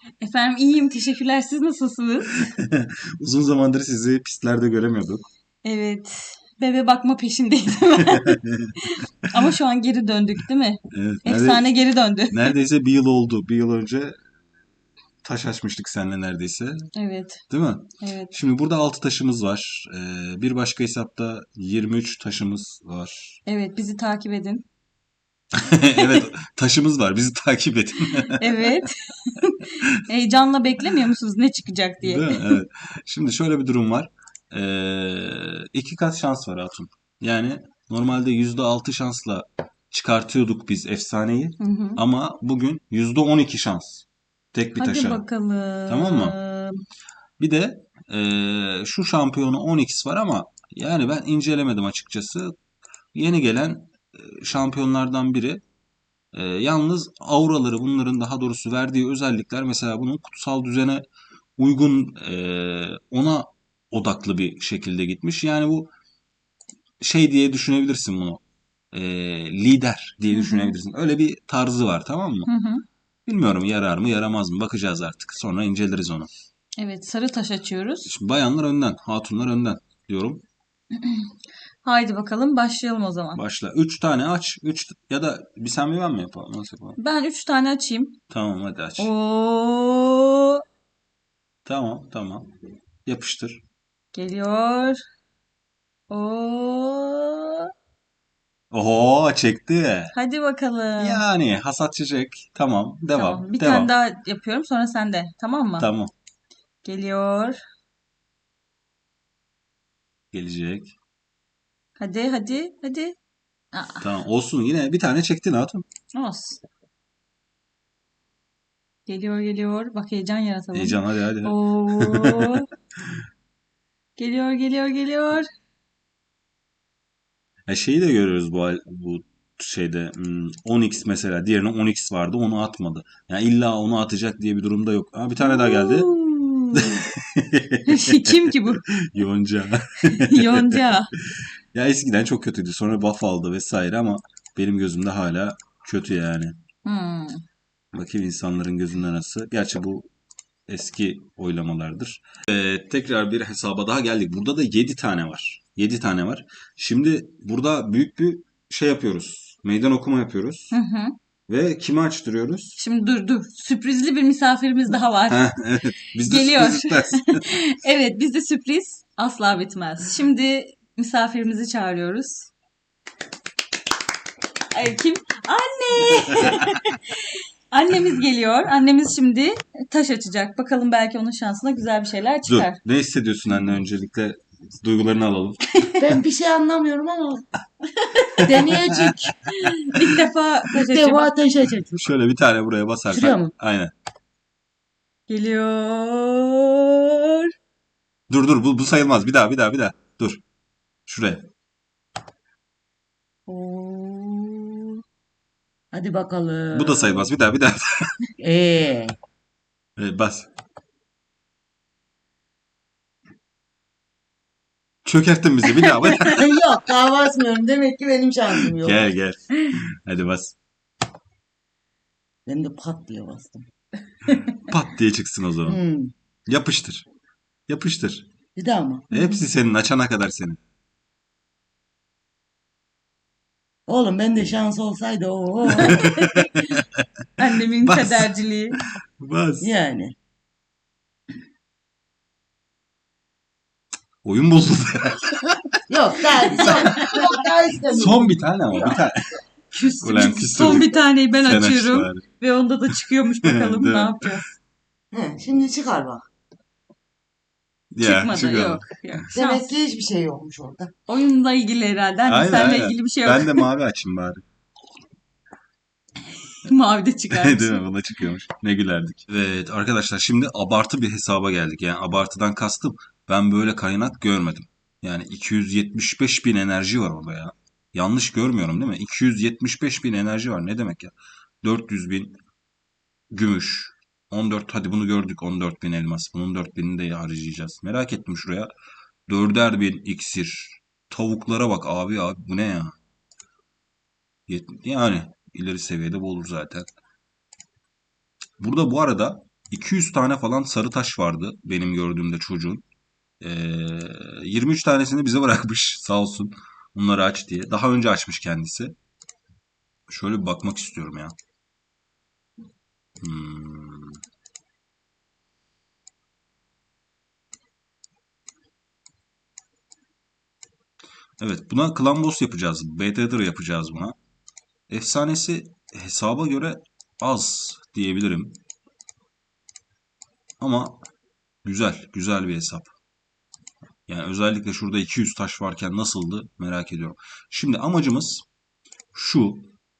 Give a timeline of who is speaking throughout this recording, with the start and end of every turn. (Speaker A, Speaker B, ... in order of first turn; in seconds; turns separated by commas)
Speaker A: 0.2-2.5, Speaker B: 2.3-5.3, Speaker A: 5.6-12.5, Speaker B: 8.3-8.7, Speaker B: 10.9-11.7, Speaker B: 12.3-14.2, Speaker B: 15.2-16.9, Speaker A: 16.9-17.4, Speaker B: 17.5-23.4, Speaker A: 18.0-18.3, Speaker A: 23.5-24.7, Speaker B: 25.5-28.8, Speaker A: 28.2-32.6, Speaker B: 32.0-45.2, Speaker A: 41.6-42.0, Speaker A: 44.8-46.8, Speaker B: 45.9-46.4, Speaker B: 47.4-52.5, Speaker B: 53.1-55.6, Speaker B: 56.3-61.0, Speaker B: 61.6-65.9, Speaker B: 67.0-68.4, Speaker B: 68.9-72.5, Speaker A: 70.3-70.8, Speaker A: 72.5-72.8, Speaker B: 73.2-76.3, Speaker A: 76.8-78.1, Speaker B: 78.0-80.4, Speaker A: 80.9-81.3, Speaker A: 81.8-83.4, Speaker B: 83.3-87.0, Speaker A: 87.0-88.2, Speaker B: 88.3-89.1, Speaker A: 89.0-90.6, Speaker B: 91.6-92.5, Speaker B: 93.1-93.6, Speaker A: 94.1-95.0, Speaker A: 96.1-97.7, Speaker B: 98.7-100.1, Speaker A: 100.1-101.2, Speaker B: 101.0-103.9, Speaker A: 103.1-105.9, Speaker B: 105.8-106.1, Speaker A: 106.8-107.6, Speaker B: 110.3-111.0, Speaker A: 112.0-113.2, Speaker A: 113.7-114.1, Speaker B: 114.0-115.8, Speaker A: 116.1-116.6, Speaker A: 119.1-122.7, Speaker B: 120.7-122.6, Speaker A: 124.2-125.5, Speaker B: 127.7-136.1, Speaker A: 135.4-137.1, Speaker B: 136.7-140.9, Speaker A: 137.8-138.9, Speaker A: 140.1-141.1, Speaker B: 141.7-146.6, Speaker A: 146.8-147.4, Speaker B: 147.9-150.1, Speaker B: 150.7-160.8, Speaker A: 160.7-161.2, Speaker B: 161.5-162.8, Speaker A: 162.8-165.5, Speaker B: 165.3-167.4, Speaker A: 166.2-172.5, Speaker A: 174.7-182.8, Speaker B: 182.5-186.0, Speaker C: 186.0-187.4, Speaker B: 188.4-189.1, Speaker C: 188.4-189.4, Speaker A: 189.6-191.3, Speaker C: 190.7-192.0, Speaker B: 191.9-193.9, Speaker C: 193.1-193.5, Speaker A: 195.3-197.4, Speaker B: 198.3-200.4, Speaker B: 201.1-201.5, Speaker A: 203.5-205.0, Speaker C: 205.9-207.3, Speaker B: 206.7-208.1, Speaker C: 208.4-209.2, Speaker B: 210.0-210.5, Speaker B: 215.1-216.5, Speaker C: 216.2-219.1, Speaker B: 218.8-220.6, Speaker C: 222.5-223.7, Speaker B: 224.5-225.8, Speaker C: 225.7-226.1, Speaker B: 226.5-227.1, Speaker B: 227.7-228.3, Speaker C: 228.6-229.3, Speaker B: 229.1-230.6, Speaker C: 233.9-236.1, Speaker B: 235.8-237.1, Speaker A: 235.8-236.6, Speaker A: 237.4-238.8, Speaker B: 237.8-238.3, Speaker B: 239.2-239.7, Speaker C: 239.6-240.2, Speaker B: 244.2-245.6, Speaker C: 245.9-249.0, Speaker B: 246.6-247.1, Speaker B: 247.9-249.4, Speaker A: 249.7-254.5, Speaker B: 250.0-252.2, Speaker B: 253.4-254.2, Speaker C: 255.1-256.2, Speaker B: 257.9-259.3, Speaker A: 258.0-259.7, Speaker C: 259.3-260.9, Speaker A: 261.1-263.7, Speaker B: 262.2-264.4, Speaker A: 266.6-267.9, Speaker B: 267.3-282.4, Speaker B: 283.3-288.7, Speaker B: 289.3-293.0, Speaker B: 294.5-296.9, Speaker B: 298.6-302.8, Speaker B: 303.4-308.9, Speaker B: 310.1-311.3, Speaker B: 313.2-314.2, Speaker B: 321.4-324.2, Speaker B: 324.9-328.6, Speaker B: 330.6-331.0, Speaker B: 331.6-332.9, Speaker B: 334.1-338.4, Speaker B: 339.1-339.7